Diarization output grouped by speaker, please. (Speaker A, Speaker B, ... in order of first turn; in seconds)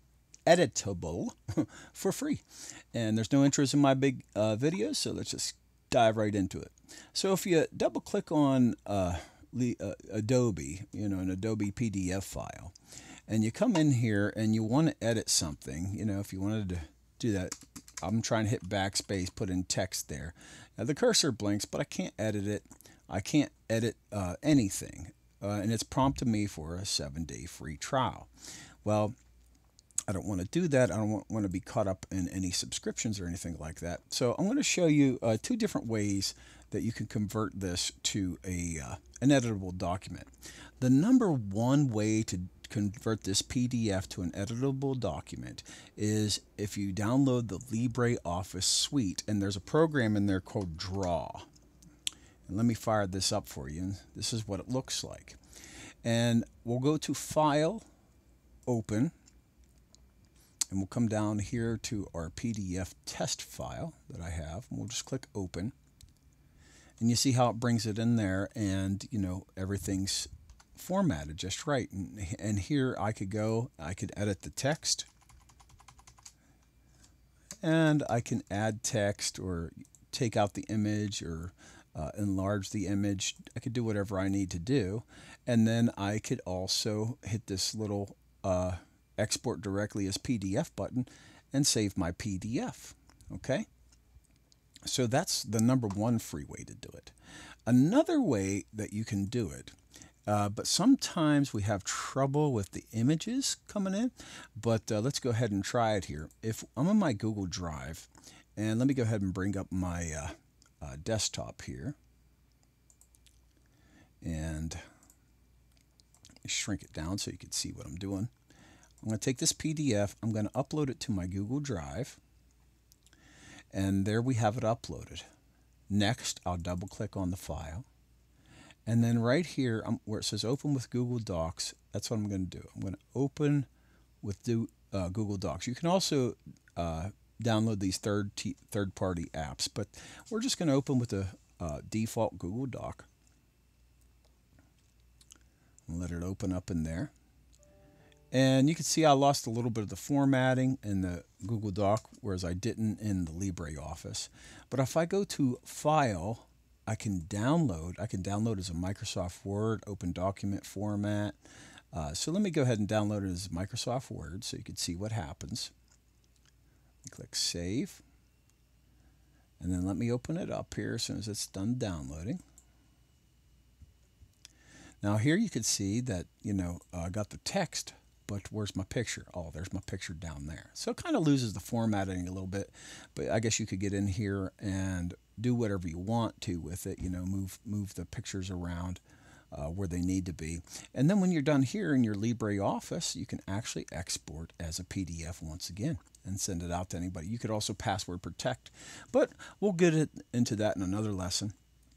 Speaker A: 0.5-12.8, 13.3-28.3, 28.8-29.2, 30.1-51.5, 52.5-55.4, 56.0-57.9, 58.7-59.1, 60.7-65.7, 67.0-75.1, 77.6-93.7, 94.8-97.1, 97.7-99.8, 100.3-112.0, 114.2-114.8, 116.5-118.3, 119.0-122.2, 123.7-125.3, 125.9-127.9, 128.9-133.7, 134.2-143.1, 145.9-147.1, 148.3-161.4, 161.9-165.7, 167.0-168.0, 169.6-172.4, 175.0-201.6